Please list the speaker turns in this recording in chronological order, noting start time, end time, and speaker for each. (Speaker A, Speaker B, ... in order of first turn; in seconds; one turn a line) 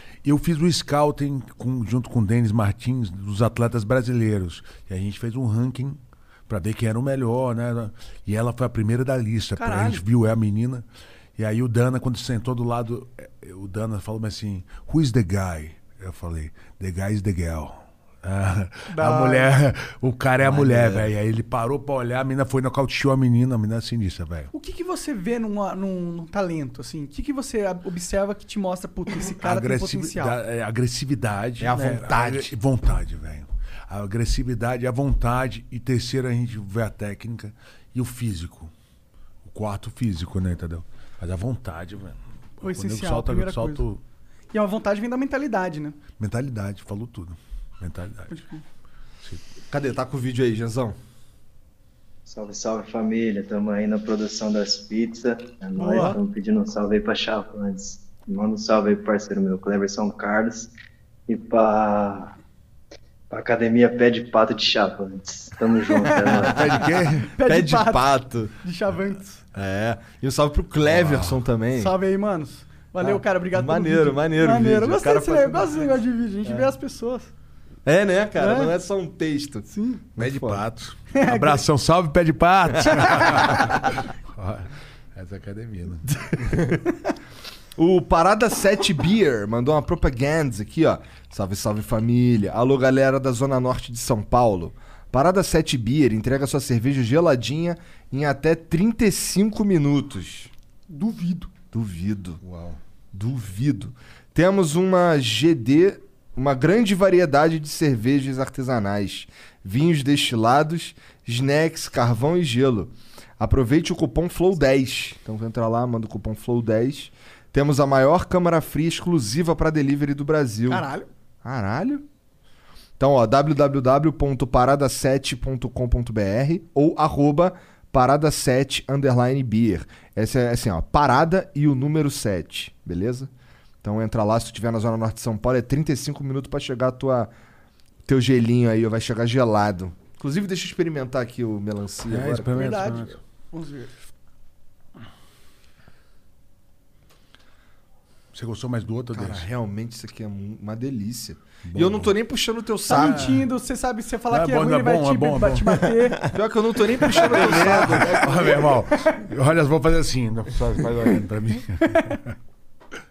Speaker A: 0.2-10.8
Speaker B: 9.6-10.0
Speaker A: 11.4-24.5
Speaker B: 18.9-19.5
Speaker C: 20.4-21.1
Speaker B: 24.5-30.4
Speaker A: 29.3-38.7
Speaker C: 31.6-32.5
Speaker A: 39.4-44.0
Speaker B: 42.6-43.8
Speaker B: 44.5-46.0
Speaker A: 46.2-48.3
Speaker B: 48.3-48.6
Speaker C: 49.7-51.0
Speaker D: 52.2-60.7
Speaker B: 55.8-56.2
Speaker D: 61.3-62.3
Speaker D: 63.3-66.7
Speaker B: 65.9-66.5
Speaker C: 66.1-68.5
Speaker A: 66.4-67.3
Speaker B: 67.3-69.4
Speaker C: 69.5-71.9
Speaker A: 70.8-71.4
Speaker B: 71.7-77.3
Speaker C: 73.0-75.8
Speaker C: 77.8-80.6
Speaker B: 78.4-78.7
Speaker B: 79.7-80.0
Speaker A: 80.2-86.1
Speaker B: 81.1-81.6
Speaker B: 82.9-83.3
Speaker C: 82.9-83.5
Speaker C: 86.4-86.8
Speaker C: 87.8-100.5
Speaker B: 100.9-101.5
Speaker C: 101.7-102.4
Speaker A: 102.4-102.8
Speaker C: 103.1-120.8
Speaker B: 120.7-121.1
Speaker C: 121.4-122.0
Speaker C: 123.0-133.3
Speaker C: 133.8-137.3
Speaker C: 138.1-142.6
Speaker A: 142.1-143.2
Speaker B: 142.4-143.9
Speaker A: 148.3-149.4
Speaker C: 149.1-153.4
Speaker A: 151.7-152.1
Speaker B: 152.9-156.3
Speaker A: 152.9-153.4
Speaker A: 154.3-155.9
Speaker C: 156.3-158.8
Speaker A: 157.1-162.3
Speaker B: 161.9-162.2